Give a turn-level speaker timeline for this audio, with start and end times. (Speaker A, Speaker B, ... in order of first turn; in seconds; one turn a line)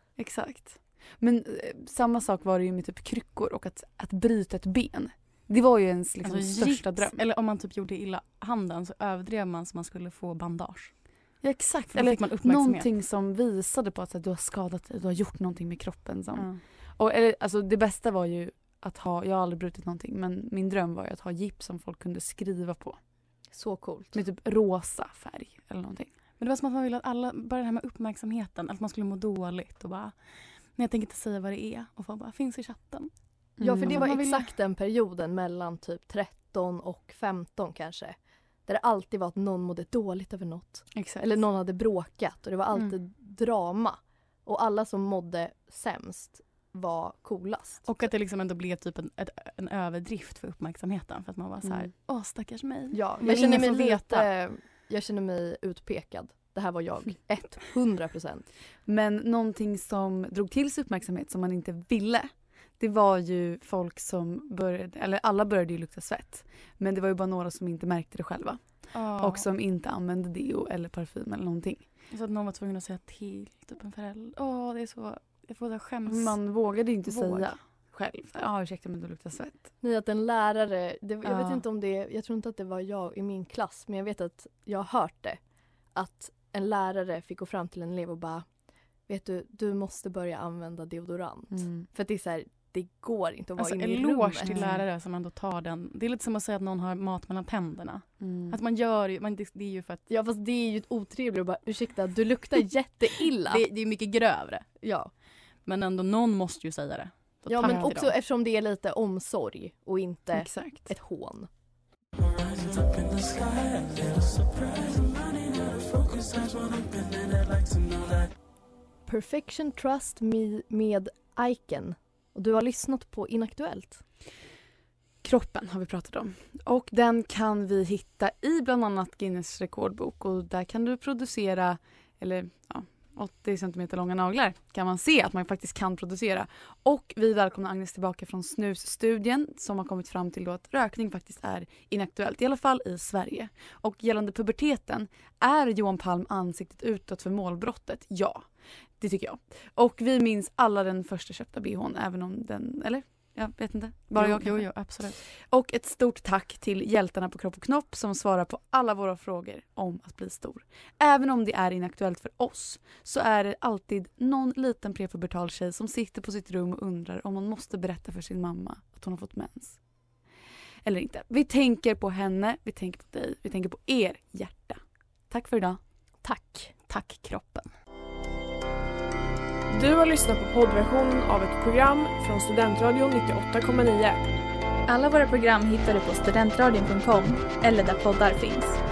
Speaker A: 0.2-7.2
Speaker B: 6.2-10.9
Speaker A: 11.4-23.0
Speaker B: 11.9-12.9
Speaker B: 16.3-16.6
Speaker C: 23.5-24.2
Speaker A: 24.1-26.1
Speaker B: 26.4-30.1
Speaker B: 30.8-33.1
Speaker A: 33.6-34.1
Speaker C: 33.6-38.1
Speaker B: 33.8-34.5
Speaker C: 38.7-47.9
Speaker A: 41.0-41.2
Speaker B: 47.9-54.3
Speaker C: 52.9-58.5
Speaker A: 58.9-68.6
Speaker B: 68.9-69.5
Speaker A: 69.2-71.8
Speaker B: 72.1-76.4
Speaker A: 76.1-79.6
Speaker B: 77.0-77.5
Speaker C: 79.8-85.4
Speaker A: 81.2-81.6
Speaker C: 86.0-88.5
Speaker C: 89.1-94.5
Speaker A: 91.5-91.9
Speaker B: 93.6-100.1
Speaker A: 94.4-94.8
Speaker A: 98.2-98.6
Speaker C: 100.1-103.6
Speaker B: 103.5-104.7
Speaker C: 104.8-105.1
Speaker B: 105.7-108.1
Speaker C: 107.5-111.5
Speaker A: 107.6-107.9
Speaker A: 110.3-110.9
Speaker C: 119.1-124.0
Speaker A: 125.2-148.5
Speaker A: 149.0-154.7
Speaker B: 154.2-155.2
Speaker A: 155.5-169.8
Speaker A: 170.8-175.8
Speaker B: 176.2-177.7
Speaker D: 179.7-184.2
Speaker E: 184.9-188.8